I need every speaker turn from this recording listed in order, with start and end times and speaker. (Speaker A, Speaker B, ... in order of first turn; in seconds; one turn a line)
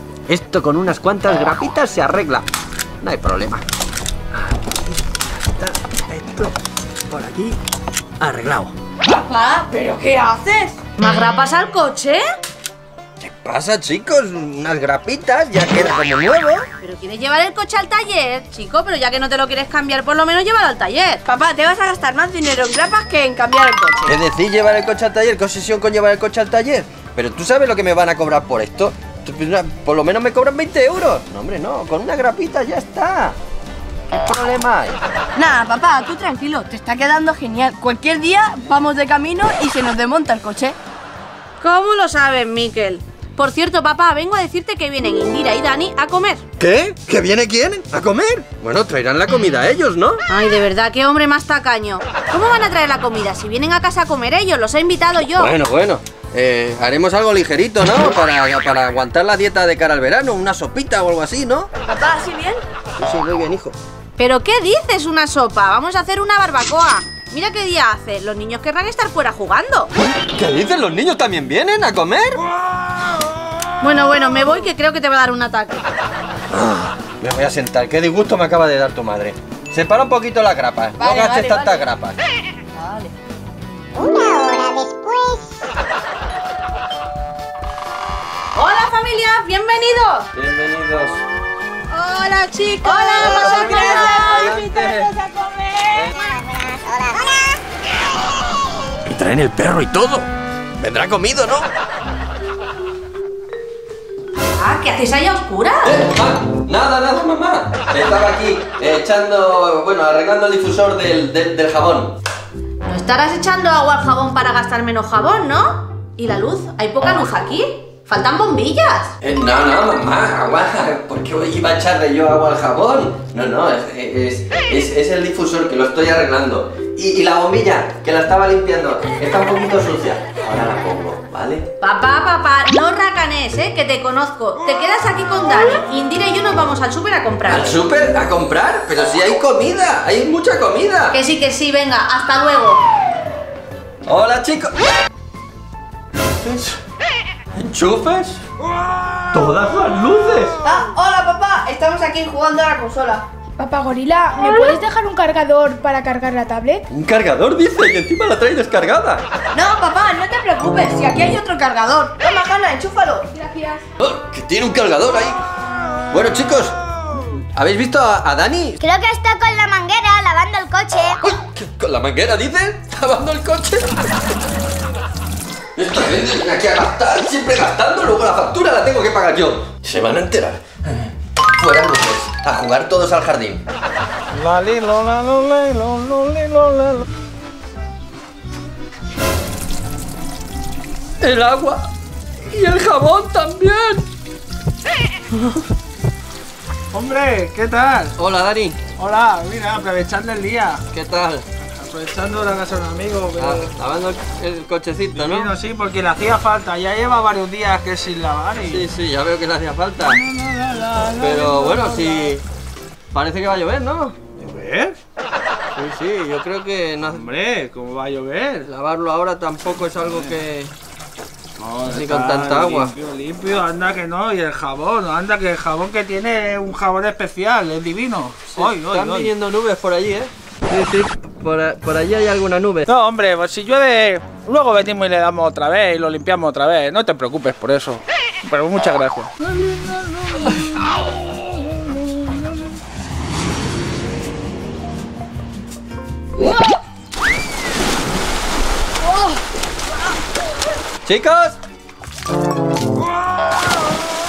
Speaker A: 0.3-2.5
Speaker A: 3.0-3.6
Speaker A: 4.3-6.5
Speaker A: 7.1-7.6
Speaker A: 8.2-8.7
Speaker B: 9.1-10.8
Speaker C: 11.0-12.2
Speaker A: 13.2-16.7
Speaker C: 16.8-21.2
Speaker B: 21.2-24.2
Speaker A: 24.1-33.4
Speaker A: 34.1-35.0
Speaker B: 35.4-40.8
Speaker C: 41.6-46.4
Speaker A: 46.6-50.2
Speaker C: 50.3-55.5
Speaker A: 55.4-61.7
Speaker B: 61.9-62.6
Speaker A: 63.0-63.8
Speaker C: 64.2-69.9
Speaker A: 70.3-72.4
Speaker C: 73.8-75.9
Speaker A: 76.5-82.2
Speaker B: 81.0-81.8
Speaker B: 82.8-83.1
Speaker D: 84.0-85.6
Speaker C: 88.5-90.3
Speaker A: 90.3-91.2
Speaker C: 91.9-94.5
Speaker B: 92.8-96.1
Speaker A: 93.1-95.1
Speaker A: 95.9-96.2
Speaker D: 96.2-97.6
Speaker A: 99.1-101.7
Speaker C: 104.4-106.0
Speaker A: 105.8-112.1
Speaker C: 112.9-119.1
Speaker A: 119.2-131.7
Speaker C: 131.8-137.8
Speaker A: 137.4-141.2
Speaker C: 141.1-142.8
Speaker A: 144.1-144.8
Speaker A: 146.4-146.8
Speaker A: 147.6-148.4
Speaker A: 149.3-150.6
Speaker B: 150.6-153.2
Speaker E: 153.6-156.8
Speaker A: 156.9-159.2
Speaker B: 159.5-163.3
Speaker E: 163.3-163.8
Speaker A: 164.0-165.4
Speaker A: 166.1-168.8
Speaker D: 168.8-171.2
Speaker A: 171.2-174.2
Speaker A: 175.8-183.6
Speaker F: 184.3-187.1
Speaker A: 191.2-194.1
Speaker F: 196.9-198.1
Speaker A: 198.2-198.8
Speaker F: 199.0-200.8
Speaker A: 200.9-201.5
Speaker F: 201.6-203.7
Speaker A: 203.4-205.5
Speaker F: 205.2-208.8
Speaker A: 208.6-210.2
Speaker F: 210.1-212.3
Speaker A: 211.1-212.4
Speaker A: 213.1-214.2
Speaker F: 214.4-215.0
Speaker A: 215.8-217.3
Speaker F: 217.1-218.7
Speaker A: 218.6-220.7
Speaker F: 221.6-229.3
Speaker A: 221.8-222.9
Speaker A: 228.5-232.9
Speaker F: 232.9-239.3
Speaker A: 251.1-251.6